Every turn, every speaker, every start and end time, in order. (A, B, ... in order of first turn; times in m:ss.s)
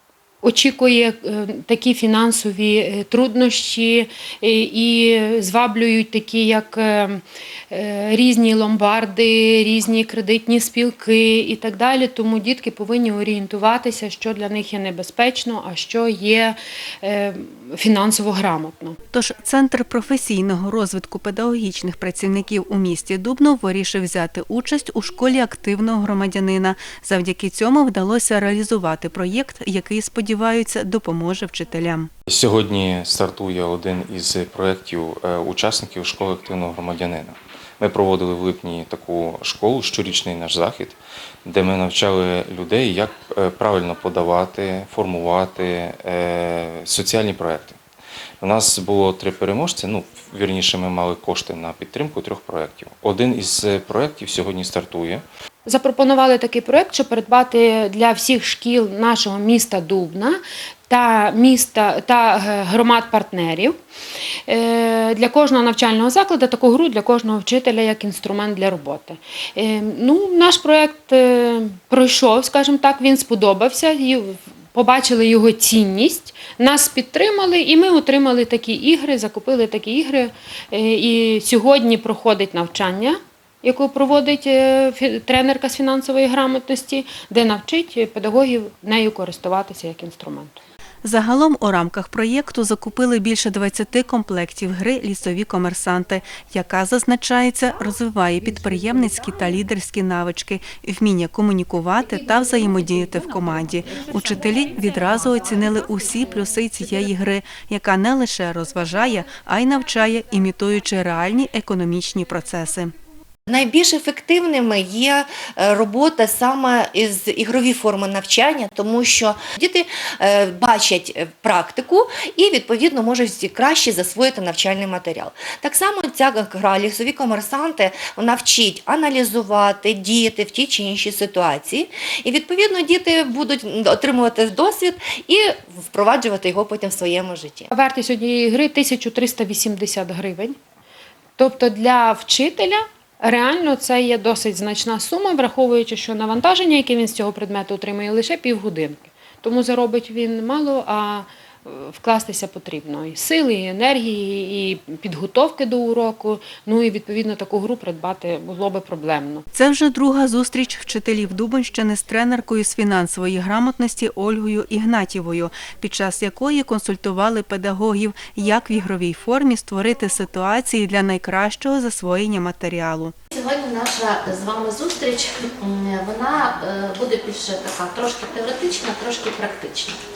0:00.4-0:19.0 A
0:19.1-0:32.1 B
0:32.3-0:47.8 C
0:48.4-0:55.2 C
0:55.6-1:03.8 A
1:04.5-1:30.6 A
1:31.0-1:52.9 B
1:53.5-2:17.7 D
2:17.7-2:20.6 A
2:21.4-2:39.4 A
2:39.5-2:53.1 B
2:53.3-3:00.0 E